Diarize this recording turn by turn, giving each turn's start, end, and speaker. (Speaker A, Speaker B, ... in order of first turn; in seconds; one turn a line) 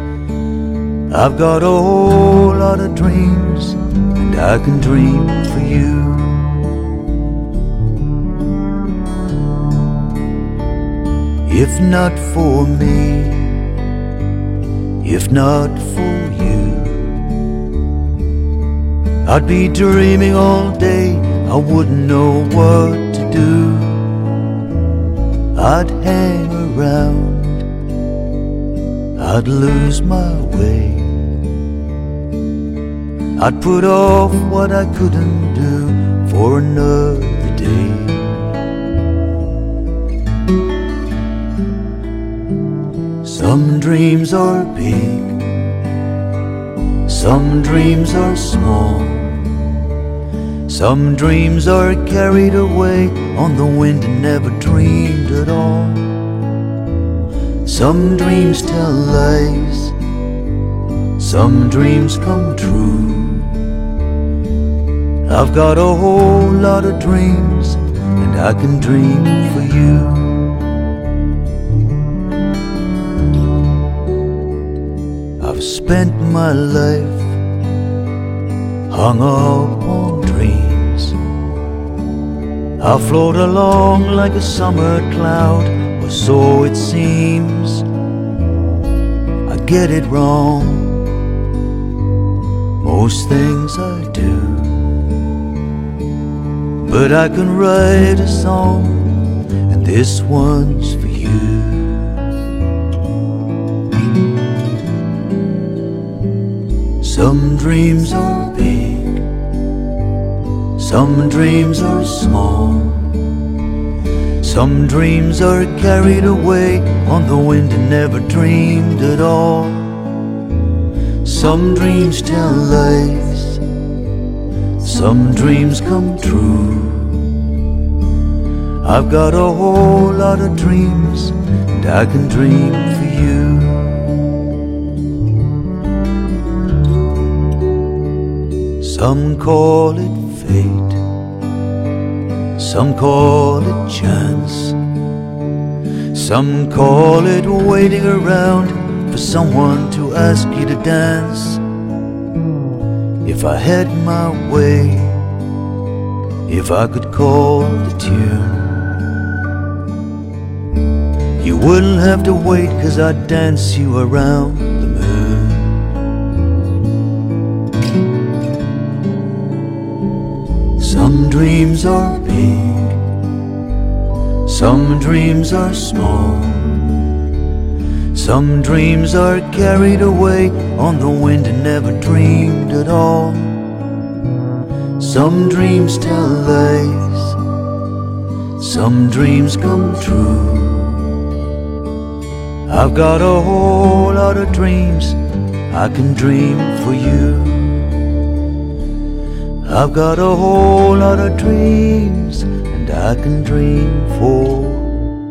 Speaker A: 1.1-6.6
Speaker A: 11.5-13.7
Speaker A: 15.0-17.2
Speaker A: 19.2-24.1
Speaker A: 25.5-27.6
Speaker A: 29.2-31.3
Speaker A: 33.4-38.5
Speaker A: 43.2-45.5
Speaker A: 47.1-49.6
Speaker A: 50.7-56.1
Speaker A: 57.6-60.0
Speaker A: 61.2-63.5
Speaker A: 65.3-70.5
Speaker A: 75.4-77.3
Speaker A: 78.9-81.2
Speaker A: 82.8-87.8
Speaker A: 89.5-91.1
Speaker A: 92.8-95.0
Speaker A: 96.8-102.2
Speaker A: 107.0-109.3
Speaker A: 110.8-113.2
Speaker A: 114.4-120.0
Speaker A: 121.2-123.6
Speaker A: 124.8-127.3
Speaker A: 128.8-134.0
Speaker A: 138.8-141.0
Speaker A: 142.6-144.8
Speaker A: 146.1-151.6
Speaker A: 153.2-155.3
Speaker A: 156.5-159.0
Speaker A: 161.4-165.9
Speaker A: 170.8-173.1
Speaker A: 174.5-176.9
Speaker A: 178.1-183.7
Speaker A: 185.0-187.4
Speaker A: 188.6-191.1
Speaker A: 192.7-198.0
Speaker A: 199.6-205.1